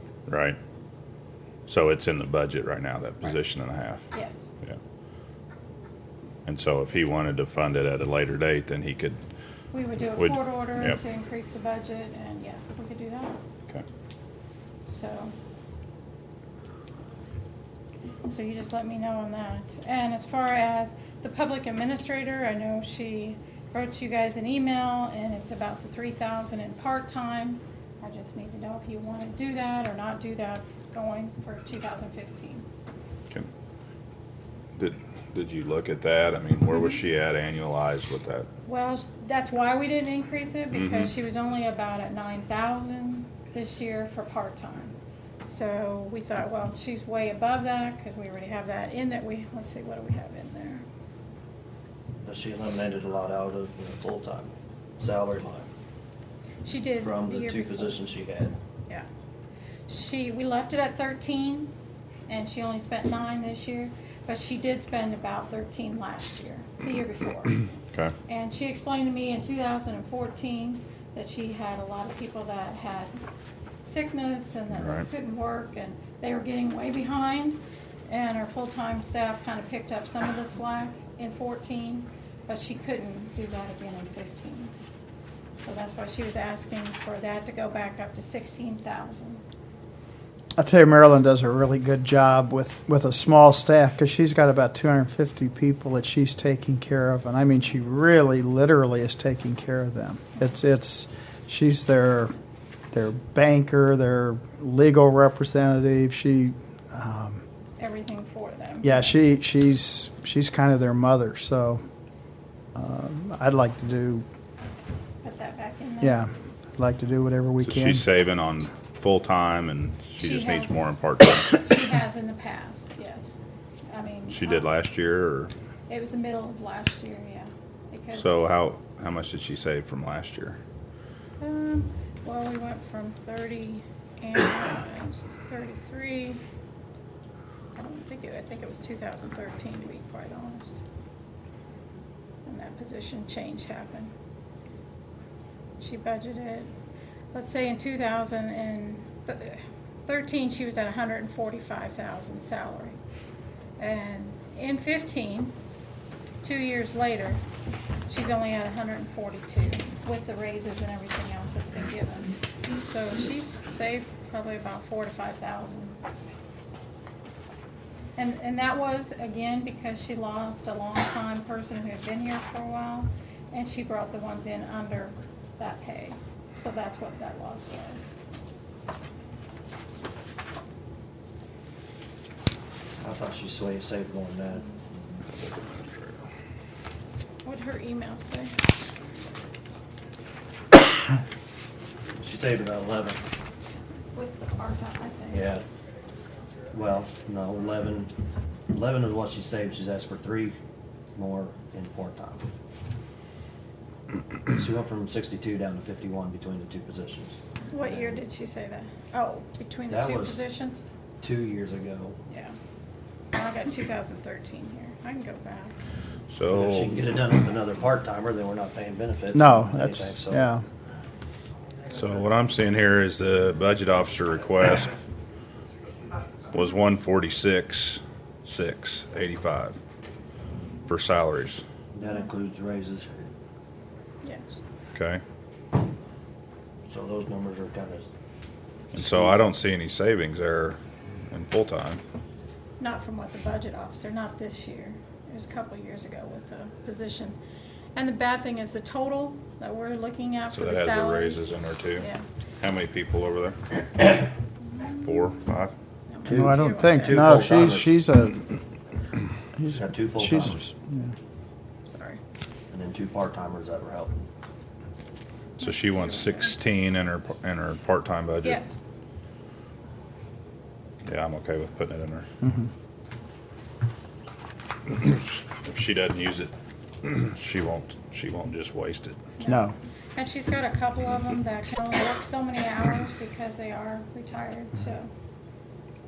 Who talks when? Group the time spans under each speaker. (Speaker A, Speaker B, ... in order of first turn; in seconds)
Speaker A: 0.3-0.6, 1.7-4.8, 6.5-9.2, 10.2-11.0, 34.8-38.5, 40.7-41.1, 74.7-75.1, 117.6-121.6, 124.3-125.5, 128.1-130.6, 216.3-217.0, 221.9-224.9, 226.5-229.8, 230.9-231.6, 234.9-235.2, 238.9-240.8, 241.3-242.0, 250.5-252.1, 252.6-253.8, 255.0-255.7, 265.6-268.6, 271.1-272.2, 274.9-276.5, 277.0-279.2
Speaker B: 4.1-4.5, 9.7-13.4, 14.9-15.3, 18.3-32.6, 38.6-50.8, 56.6-58.0, 59.9-61.7, 62.3-67.7, 68.2-73.1, 73.8-84.7, 85.6-89.4, 107.8-109.1, 115.2-116.2, 120.2-120.8, 121.6-124.7, 125.9-128.3, 131.4-136.4, 137.8-140.8, 142.4-144.1, 145.8-146.7, 147.3-153.0, 153.8-155.5, 156.4-157.4, 158.1-166.0, 168.2-178.1, 187.4-188.5, 194.1-195.4, 207.7-210.8, 212.3-212.6, 213.3-215.8, 234.2-234.6, 242.8-247.3, 247.9-252.2, 254.7-255.1, 256.1-257.4, 261.9-262.2, 265.6-266.5, 268.4-268.8, 279.4-285.1
Speaker C: 52.2-55.7, 57.0-58.6, 183.0-184.6, 192.2-193.2, 195.3-195.6, 196.7-198.1, 198.7-200.6, 201.1-202.4, 204.5-208.2, 209.9-210.4, 211.2-212.2, 216.5-220.5, 231.9-233.2, 236.9-238.1, 238.9-239.3, 256.2-258.0, 259.7-260.6, 262.7-264.2
Speaker D: 90.5-102.3, 102.9-107.4, 108.8-111.8, 112.7-114.2, 116.0-118.0, 219.3-220.6, 256.3-258.4, 259.6-261.1, 272.4-272.7, 279.4-279.7